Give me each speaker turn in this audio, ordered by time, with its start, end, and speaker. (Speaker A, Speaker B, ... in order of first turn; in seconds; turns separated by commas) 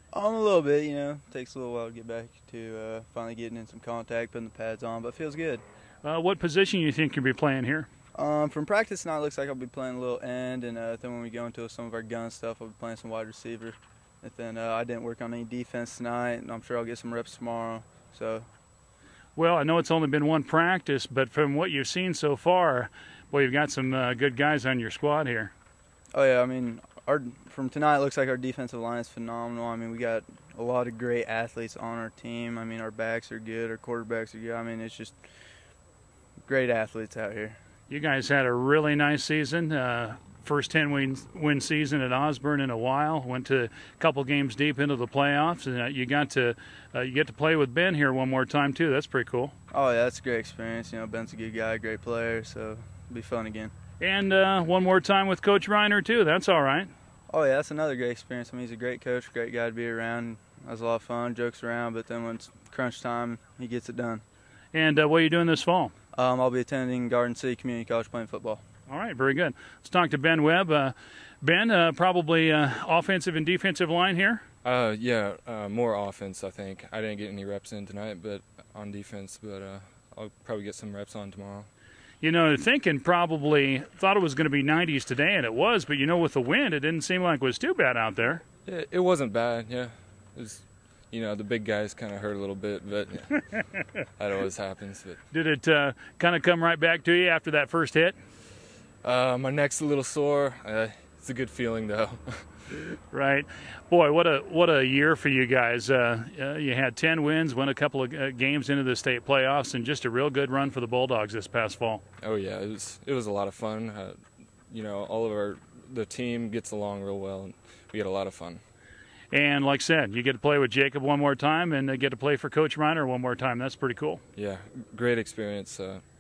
Speaker A: 0.1-5.6, Speaker B: 6.0-7.9, Speaker A: 8.2-18.5, Speaker B: 19.4-25.5, Speaker A: 26.1-35.2, Speaker A: 36.5-37.6, Speaker B: 37.9-49.5, Speaker A: 49.7-53.7, Speaker B: 54.0-56.9, Speaker A: 57.3-64.2, Speaker B: 64.7-65.9, Speaker A: 66.2-68.6, Speaker B: 68.9-74.4, Speaker C: 74.6-81.7, Speaker B: 82.2-88.4, Speaker C: 88.7-93.4, Speaker C: 94.2-95.2, Speaker B: 95.3-98.2, Speaker C: 99.0-102.4, Speaker B: 103.1-112.0, Speaker C: 112.2-114.2, Speaker C: 114.7-118.6, Speaker B: 119.3-124.2, Speaker C: 124.3-126.0